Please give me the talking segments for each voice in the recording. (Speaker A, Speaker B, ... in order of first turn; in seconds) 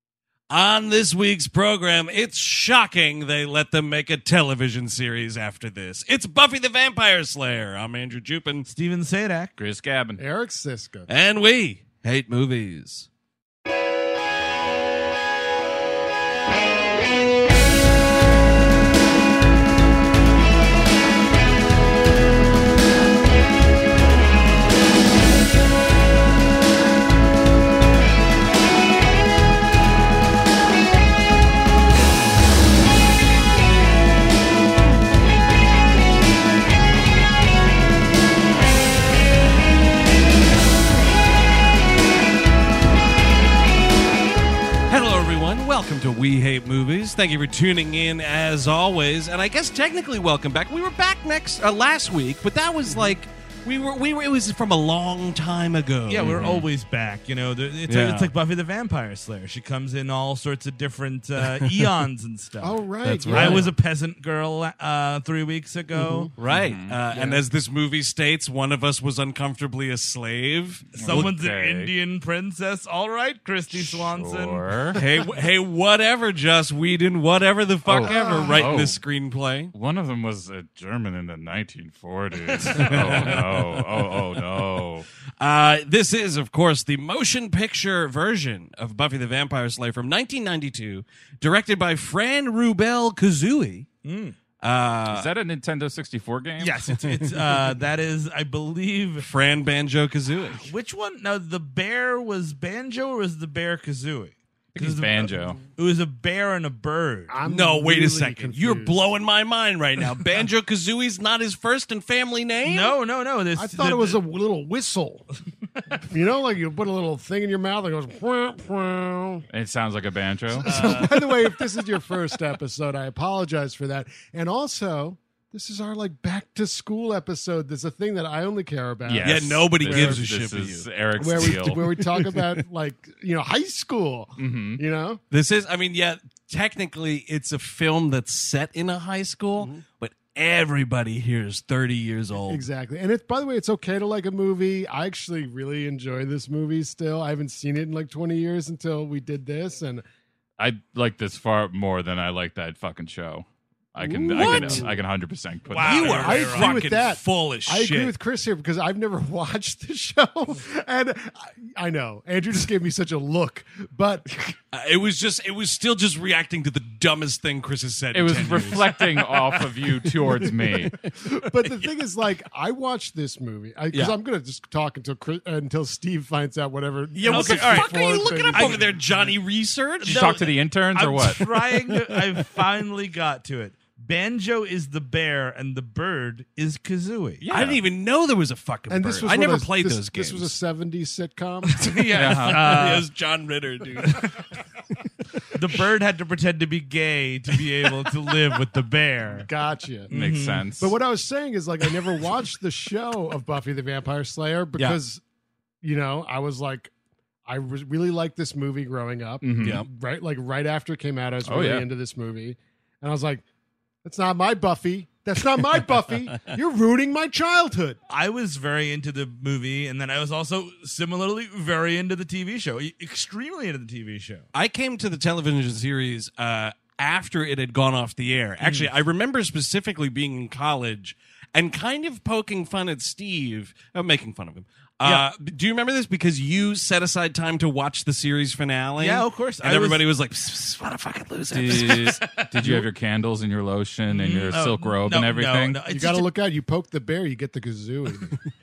Speaker A: 0.5-8.7, 11.1-13.1, 44.9-56.6, 57.9-58.3, 61.4-61.9, 63.0-63.7, 66.4-71.3, 74.9-79.7, 82.5-84.2, 85.4-93.9, 94.6-95.3, 97.0-97.7, 99.2-100.7, 107.5-113.0, 129.2-132.6, 135.3-142.7, 154.3-154.9, 155.8-158.1, 164.7-171.1, 177.2-180.5, 187.5-190.6, 192.1-194.3, 209.6-209.9, 224.5-242.8
Speaker B: 8.7-9.5, 56.1-66.3, 71.0-74.7, 94.0-94.4, 96.6-99.3, 100.6-107.4, 112.6-114.2, 120.7-121.4, 155.7-156.9, 177.2-178.9, 180.1-187.4, 191.7-193.1, 194.1-194.3, 195.5-199.5, 200.1-200.7, 218.1-224.5, 228.6-228.9, 235.0-235.3, 239.0-240.1, 242.2-242.5, 244.1-246.3
Speaker C: 9.6-10.2, 56.3-56.7, 66.5-67.0, 70.9-71.9, 73.8-75.0, 77.8-79.0, 79.7-85.1, 95.1-96.8, 104.8-105.6, 119.5-121.0, 129.1-132.0, 134.4-134.8, 150.6-156.4, 168.1-171.0, 180.0-181.5, 187.4-187.8, 192.1-192.8, 200.1-200.9, 209.4-209.8, 211.4-211.8, 241.5-245.8
Speaker D: 10.2-11.1, 52.9-53.1, 62.6-63.7, 65.9-66.3, 67.1-67.4, 78.0-78.8, 107.3-109.1, 113.6-115.3, 116.1-119.4, 120.5-130.3, 131.2-135.2, 139.6-139.8, 142.4-150.1, 154.0-155.0, 155.9-164.3, 170.1-179.3, 188.9-191.9, 199.3-200.1, 200.8-205.2, 205.8-206.9, 207.5-213.4, 214.0-218.0, 245.9-248.4